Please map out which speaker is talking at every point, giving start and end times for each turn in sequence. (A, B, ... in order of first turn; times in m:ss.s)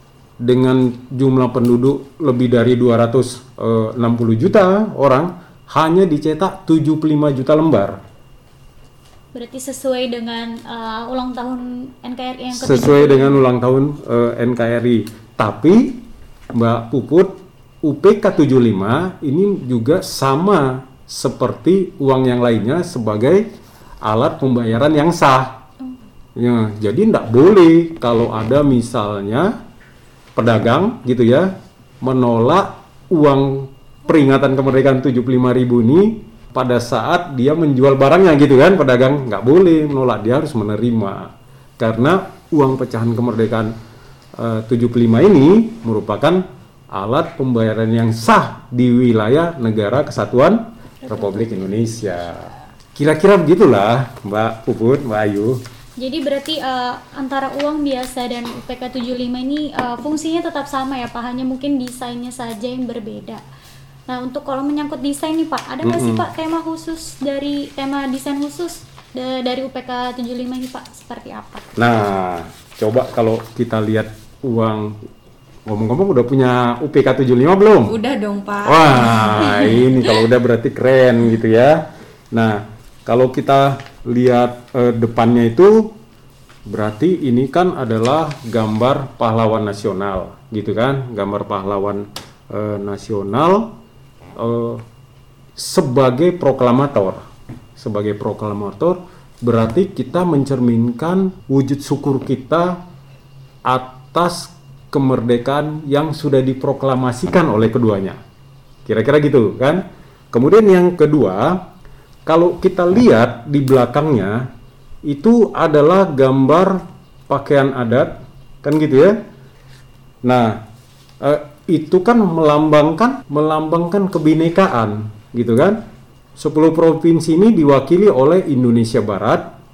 0:00.4-0:08.0 A
0:09.3-0:13.4 B
0:12.5-0:16.0 A
0:16.5-0:23.5 A
0:24.0-0:25.6 A
0:26.4-0:29.5 A
0:30.4-0:43.7 A
0:44.4-0:55.6 A
0:51.0-0:52.0 B
0:56.0-1:03.4 B
1:04.1-1:11.6 B
1:05.8-1:06.3 A
1:11.8-1:15.0 A
1:15.6-1:18.0 A
1:17.9-1:19.8 C
1:18.6-1:25.9 A
1:26.7-1:33.7 A
1:34.4-1:34.8 A
1:35.6-1:37.2 A
1:37.8-1:42.8 A
1:43.6-1:48.2 A
1:48.8-1:51.6 A
1:52.2-1:54.5 A
1:55.0-1:59.2 A
2:00.2-2:00.6 A
2:01.2-2:05.8 A
2:06.4-2:09.5 A